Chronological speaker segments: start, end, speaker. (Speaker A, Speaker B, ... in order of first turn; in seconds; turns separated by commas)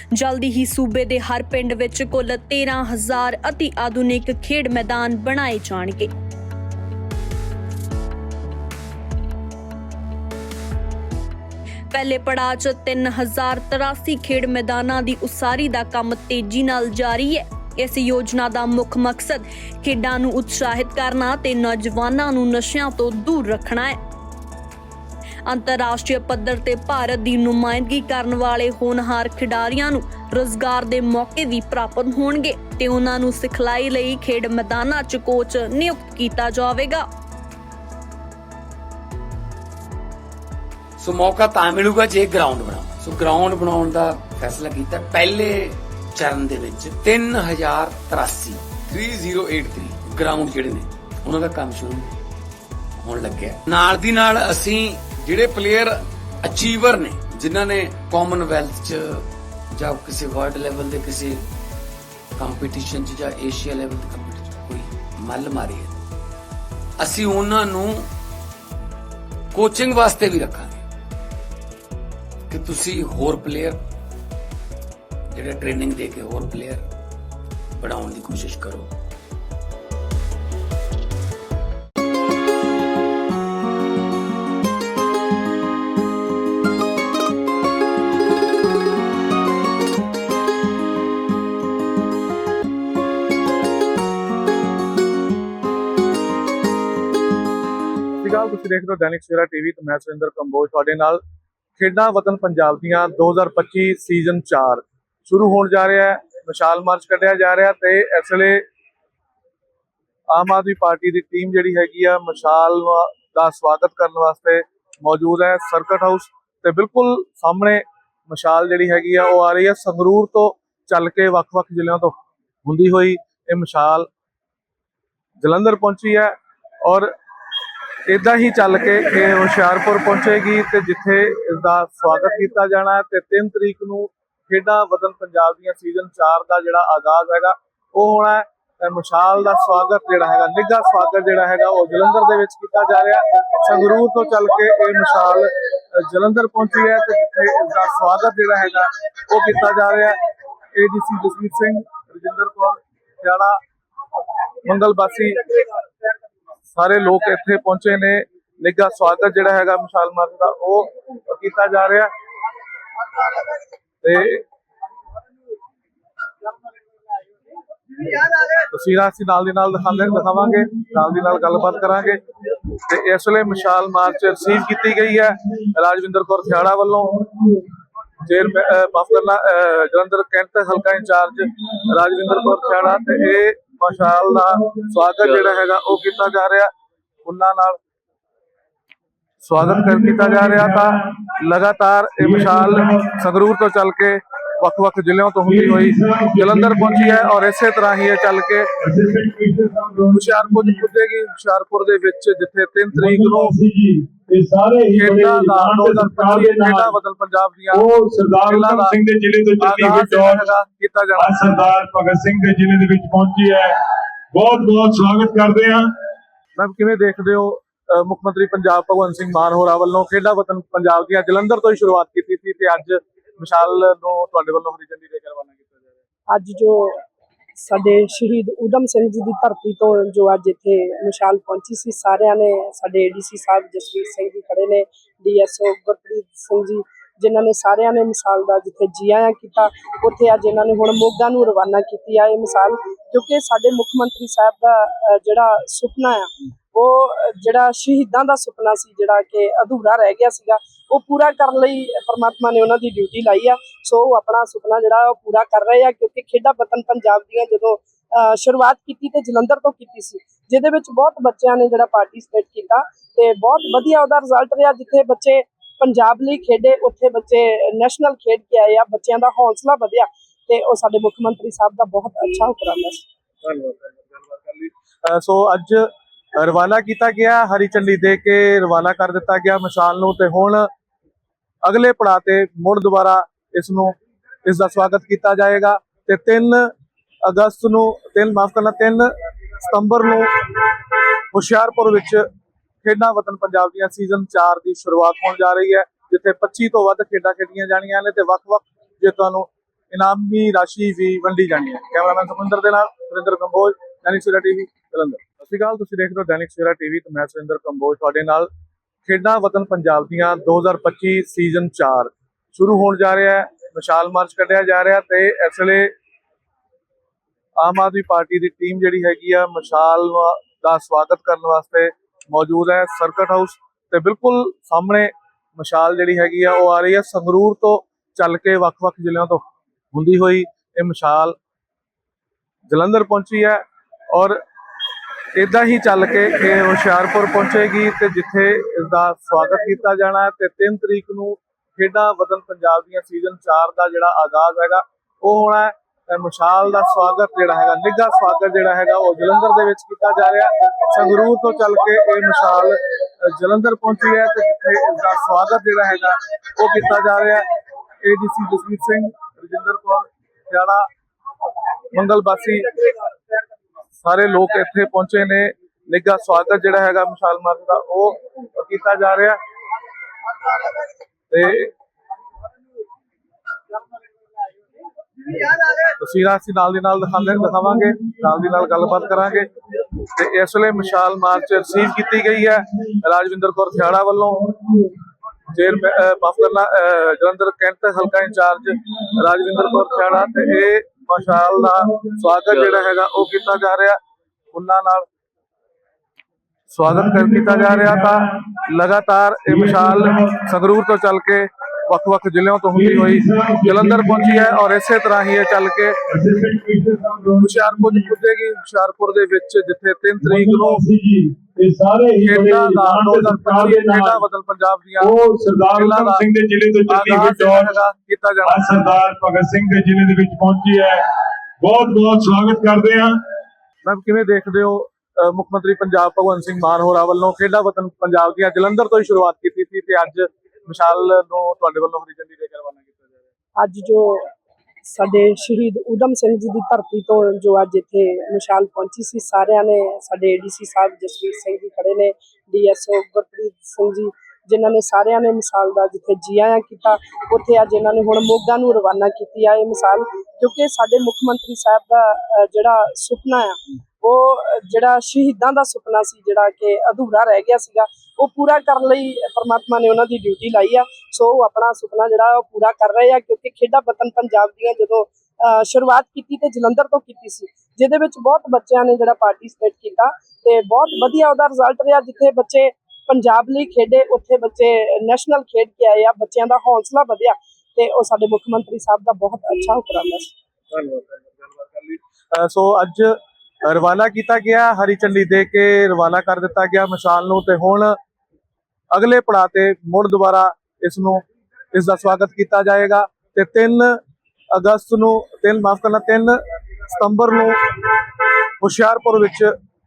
Speaker A: 0.1-6.1, Speaker A: 11.9-24.0, Speaker A: 25.5-37.0, Speaker B: 41.0-52.1, Speaker B: 53.0-61.4, Speaker B: 62.4-66.0, Speaker B: 67.0-68.1, Speaker B: 69.5-70.8, Speaker B: 72.5-73.8, Speaker B: 75.3-76.8, Speaker B: 77.8-78.9, Speaker C: 98.2-101.2, Speaker C: 101.8-108.6, Speaker C: 110.3-124.1, Speaker C: 125.4-126.3, Speaker C: 126.8-127.1, Speaker C: 128.1-150.2, Speaker C: 150.8-153.6, Speaker C: 154.7-155.4, Speaker C: 156.7-162.1, Speaker C: 164.0-164.4, Speaker C: 168.7-177.6, Speaker C: 178.2-186.7, Speaker C: 187.2-187.8, Speaker C: 189.4-198.7, Speaker D: 189.6-190.9, Speaker D: 192.2-193.1, Speaker D: 195.4-197.3, Speaker D: 198.8-200.8, Speaker C: 200.1-203.6, Speaker D: 202.9-206.9, Speaker C: 204.9-207.9, Speaker D: 207.7-210.5, Speaker C: 208.5-209.0, Speaker C: 209.6-211.3, Speaker D: 211.2-213.8, Speaker D: 214.3-215.9, Speaker C: 216.6-225.9, Speaker E: 226.3-227.0, Speaker E: 227.6-273.1, Speaker C: 273.4-280.7, Speaker C: 281.6-283.9, Speaker C: 284.5-286.7, Speaker C: 287.2-290.3, Speaker C: 291.3-292.2, Speaker C: 292.8-308.5, Speaker C: 309.1-315.9, Speaker C: 317.6-331.4, Speaker C: 332.7-334.4, Speaker C: 335.4-357.4, Speaker C: 358.0-360.9, Speaker C: 361.9-362.9, Speaker C: 364.0-369.4, Speaker C: 371.3-371.7, Speaker C: 375.8-379.5, Speaker C: 380.0-384.8, Speaker C: 385.5-394.0, Speaker C: 394.5-395.1, Speaker C: 396.7-406.0, Speaker D: 397.0-398.1, Speaker D: 399.5-400.2, Speaker D: 402.7-404.6, Speaker D: 406.1-408.1, Speaker C: 407.4-410.8, Speaker D: 410.2-414.2, Speaker C: 412.2-415.1, Speaker D: 415.0-417.8, Speaker C: 415.8-416.2, Speaker C: 416.9-418.6, Speaker D: 418.5-421.1, Speaker D: 421.6-423.2, Speaker C: 423.8-433.2, Speaker E: 433.6-434.3, Speaker E: 434.9-480.3, Speaker C: 480.7-488.0, Speaker C: 488.9-494.0, Speaker C: 494.5-497.6, Speaker C: 498.6-499.5